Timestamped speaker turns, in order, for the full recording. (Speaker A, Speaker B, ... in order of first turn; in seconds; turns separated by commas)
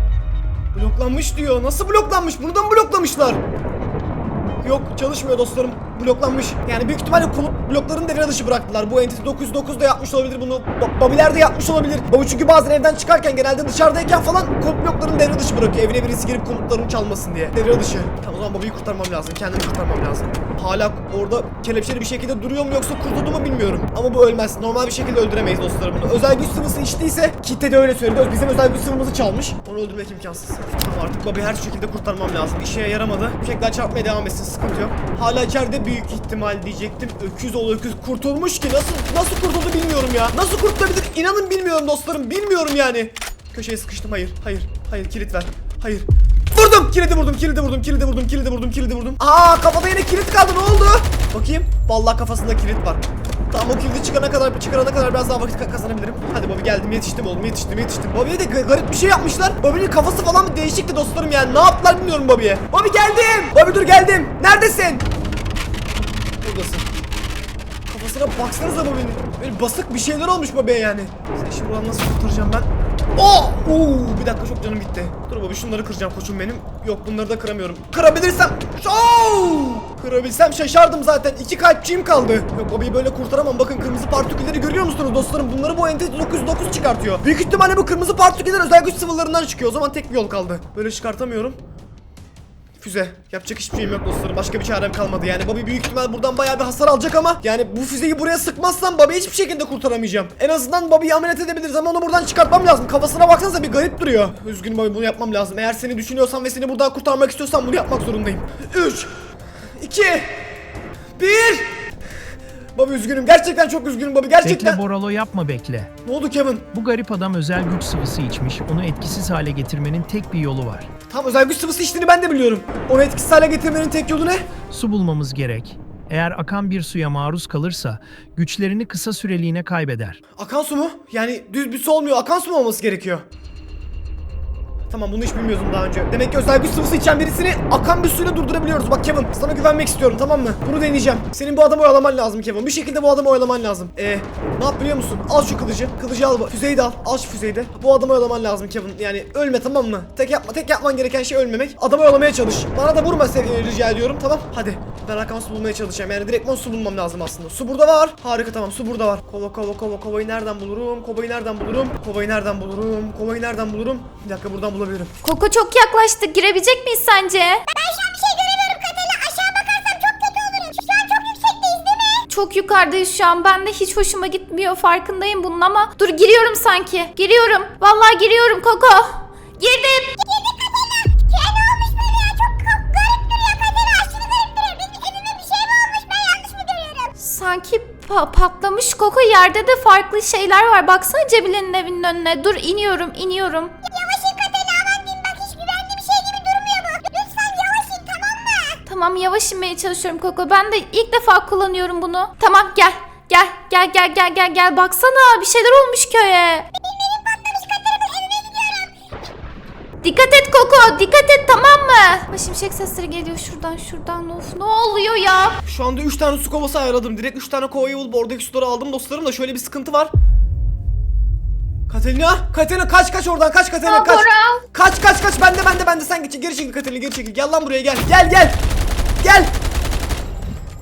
Speaker A: 0.7-3.4, Speaker A: 4.6-65.0, Speaker A: 66.4-66.9, Speaker A: 67.9-91.6, Speaker A: 92.8-109.1, Speaker A: 109.8-110.6, Speaker A: 111.2-111.9, Speaker A: 112.7-114.8, Speaker B: 114.4-115.9, Speaker A: 116.0-116.7, Speaker B: 116.7-120.9, Speaker A: 121.1-124.5, Speaker B: 124.7-130.2, Speaker A: 130.4-133.2, Speaker A: 134.9-165.1, Speaker C: 165.2-167.6, Speaker D: 167.7-172.2, Speaker C: 172.3-180.1, Speaker D: 180.1-187.1, Speaker C: 187.2-193.7, Speaker D: 193.8-198.8, Speaker C: 198.9-206.7, Speaker D: 206.8-208.9, Speaker C: 210.0-215.6, Speaker A: 215.6-220.1, Speaker A: 221.9-228.6, Speaker C: 223.8-224.6, Speaker A: 229.2-229.5